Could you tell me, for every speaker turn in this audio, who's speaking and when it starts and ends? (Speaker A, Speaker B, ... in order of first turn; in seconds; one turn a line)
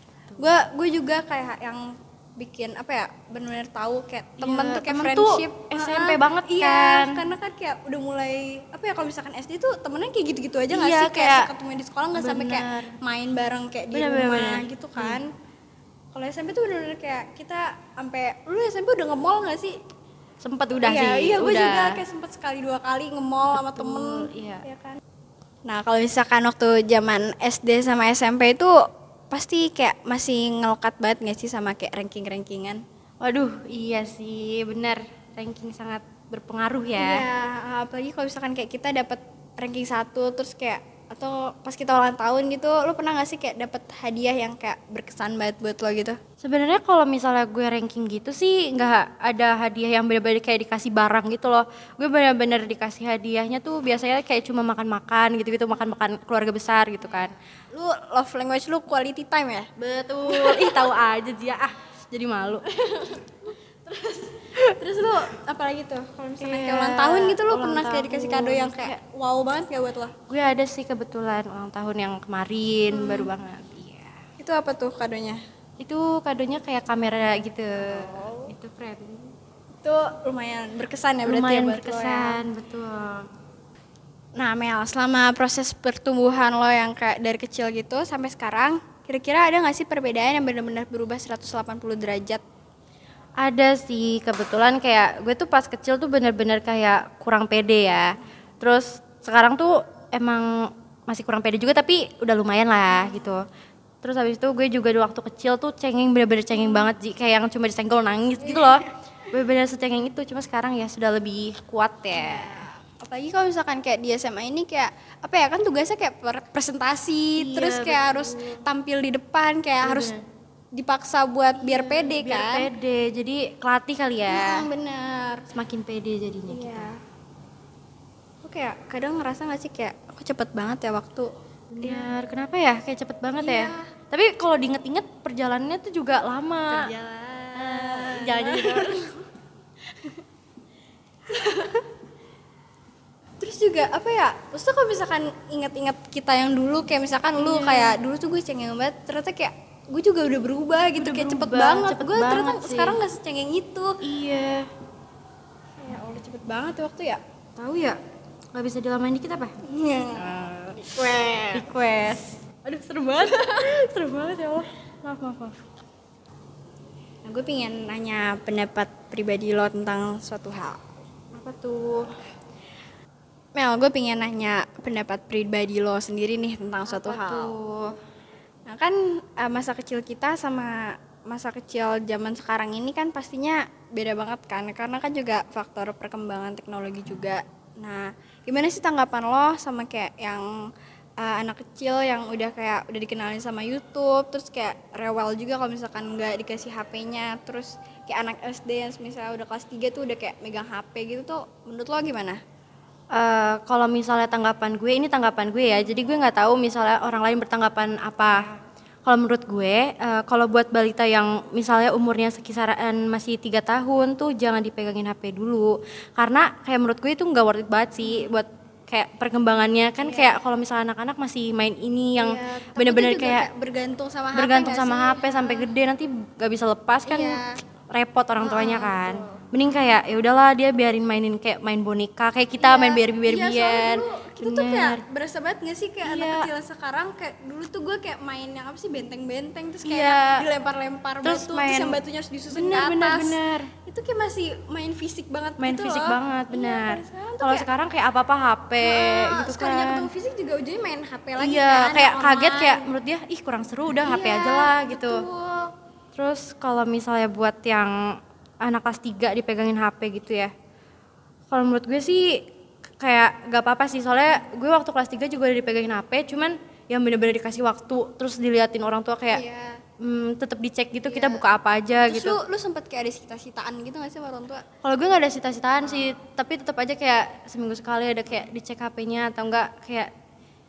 Speaker A: 0.4-15.3
Speaker B: 4.4-7.3
Speaker B: 10.7-11.5
Speaker B: 12.1-12.9
Speaker B: 13.9-15.2
Speaker A: 16.1-19.8
Speaker B: 20.4-22.0
Speaker A: 20.7-25.0
Speaker B: 23.5-24.6
Speaker A: 25.7-28.7
Speaker A: 29.3-32.8
Speaker B: 33.2-37.2
Speaker A: 37.0-46.2
Speaker B: 46.4-57.3
Speaker A: 57.1-59.7
Speaker B: 59.8-62.7
Speaker A: 60.2-60.9
Speaker A: 62.7-70.1
Speaker B: 66.4-69.0
Speaker B: 70.3-74.2
Speaker A: 72.9-73.3
Speaker A: 74.4-75.4
Speaker B: 75.8-79.3
Speaker A: 77.8-78.5
Speaker A: 79.8-82.4
Speaker B: 81.2-83.3
Speaker A: 84.4-92.4
Speaker B: 93.4-103.4
Speaker A: 103.0-103.3
Speaker B: 104.0-112.6
Speaker A: 106.5-106.9
Speaker A: 108.5-108.9
Speaker A: 112.1-120.1
Speaker B: 117.4-118.6
Speaker B: 119.8-120.2
Speaker A: 120.8-122.7
Speaker B: 121.5-124.7
Speaker A: 124.3-125.5
Speaker B: 125.5-126.9
Speaker A: 126.5-127.0
Speaker A: 128.4-131.3
Speaker B: 131.7-136.9
Speaker A: 131.8-132.1
Speaker A: 133.4-133.9
Speaker A: 136.7-139.1
Speaker B: 137.5-139.0
Speaker A: 141.3-141.8
Speaker A: 143.4-154.0
Speaker B: 147.4-148.0
Speaker B: 151.0-153.0
Speaker B: 154.0-154.7
Speaker A: 155.8-157.2
Speaker B: 157.6-158.0
Speaker B: 158.5-159.5
Speaker A: 159.6-161.7
Speaker B: 160.1-160.9
Speaker B: 161.5-165.6
Speaker A: 163.3-163.6
Speaker A: 167.2-170.8
Speaker B: 171.3-172.1
Speaker A: 173.6-177.5
Speaker B: 176.9-178.0
Speaker A: 178.7-190.5
Speaker A: 191.2-202.4
Speaker B: 203.1-208.5
Speaker B: 209.1-223.5
Speaker A: 220.0-220.4
Speaker A: 222.1-225.7
Speaker B: 224.3-227.4
Speaker A: 227.1-227.5
Speaker B: 227.9-235.0
Speaker A: 228.4-229.4
Speaker A: 232.6-247.7
Speaker B: 236.0-236.5
Speaker B: 239.8-240.5
Speaker B: 241.2-242.0
Speaker B: 242.5-243.7
Speaker B: 245.6-250.1
Speaker A: 248.8-252.9
Speaker B: 251.4-255.2
Speaker A: 253.9-255.7
Speaker B: 256.1-257.9
Speaker B: 258.6-260.5
Speaker B: 261.5-262.4
Speaker B: 263.0-269.4
Speaker A: 269.3-269.8
Speaker B: 270.0-272.4
Speaker A: 271.0-274.6
Speaker B: 274.8-280.1